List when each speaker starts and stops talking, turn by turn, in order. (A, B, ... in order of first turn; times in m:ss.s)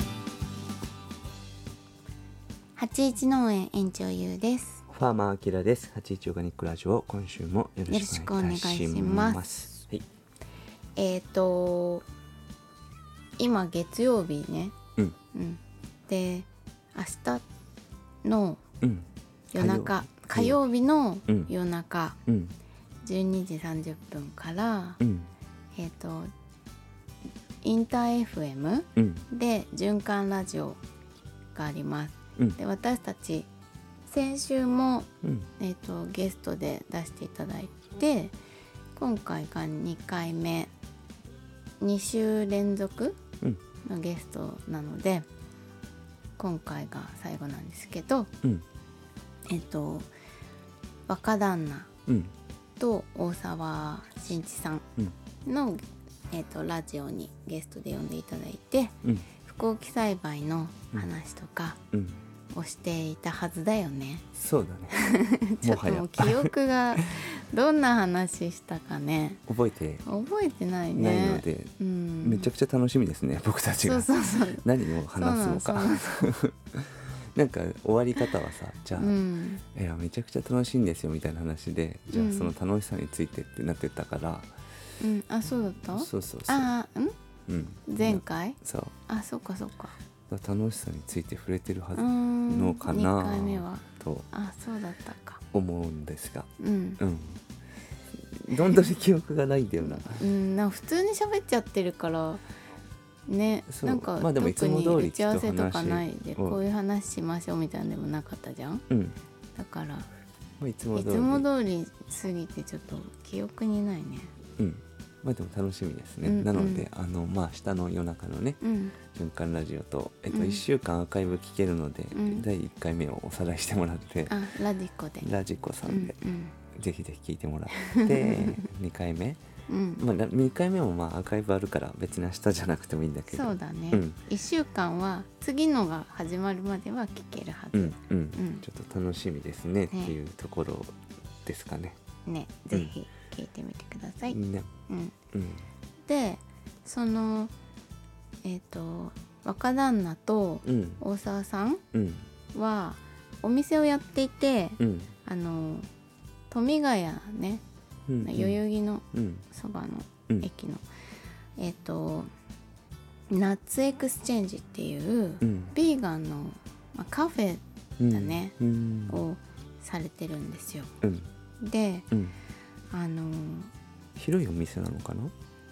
0:02.8-0:04.8 A
0:04.9-0:10.0 B
0:07.9-0:09.6 A
0:11.0-0:12.0 A
0:13.4-0:14.8 A
0:15.3-0:17.4 A
0:18.2-0:18.6 A
0:18.8-0:20.6 B
0:19.5-0:22.2 A
0:22.3-0:22.5 B
0:23.0-0:25.0 A
0:25.0-0:25.3 B
0:25.8-0:26.3 A
0:27.6-0:30.8 A
0:29.0-0:29.3 B
0:31.5-0:33.5 A
0:34.1-0:35.1 A
0:35.2-0:35.5 B
0:35.6-0:38.4 A
0:39.0-0:40.7 A
0:41.8-0:43.2 A
0:43.8-0:45.3 A
0:46.4-0:48.3 A
0:49.5-0:50.1 A
0:51.1-0:51.9 A
0:52.1-0:52.3 B
0:52.8-0:54.8 A
0:55.4-1:01.8 A
1:01.9-1:02.2 B
1:02.5-1:04.2 A
1:04.4-1:05.0 B
1:04.9-1:09.4 A
1:05.6-1:06.5 B
1:09.5-1:10.0 B
1:10.0-1:12.5 A
1:11.0-1:19.2 B
1:13.8-1:16.3 A
1:19.0-1:19.6 A
1:19.7-1:24.5 B
1:22.1-1:22.5 A
1:25.0-1:27.2 A
1:25.9-1:26.7 B
1:27.5-1:28.9 B
1:27.9-1:30.0 A
1:30.3-1:34.3 B
1:32.0-1:35.4 A
1:35.5-1:37.4 B
1:36.6-1:37.0 A
1:38.1-1:40.3 B
1:39.8-1:42.4 A
1:43.3-1:48.8 A
1:43.7-1:46.6 B
1:48.9-1:49.2 B
1:49.6-1:50.1 A
1:50.6-1:51.5 B
1:50.9-1:54.3 A
1:54.6-2:04.4 B
1:56.2-1:56.9 A
1:58.6-1:59.0 A
2:00.3-2:00.6 A
2:02.1-2:02.5 A
2:04.3-2:05.3 A
2:05.2-2:06.2 B
2:05.9-2:06.6 A
2:06.7-2:09.4 B
2:07.8-2:08.6 A
2:09.7-2:10.0 A
2:10.0-2:14.2 B
2:13.3-2:18.6 A
2:17.7-2:20.9 B
2:19.9-2:20.2 A
2:21.4-2:22.0 B
2:22.2-2:25.2 A
2:24.3-2:24.7 B
2:25.3-2:25.7 B
2:26.0-2:27.5 A
2:28.4-2:31.8 A
2:30.7-2:31.0 B
2:31.9-2:32.3 B
2:32.5-2:35.9 A
2:34.8-2:35.1 B
2:36.5-2:37.6 A
2:38.1-2:38.6 B
2:38.2-2:40.8 A
2:39.1-2:39.5 B
2:41.6-2:42.3 A
2:43.3-2:48.6 A
2:45.4-2:45.8 B
2:48.0-2:49.3 B
2:49.1-2:50.9 A
2:51.0-2:51.3 B
2:51.6-2:52.1 A
2:52.9-2:53.7 A
2:54.2-2:55.3 B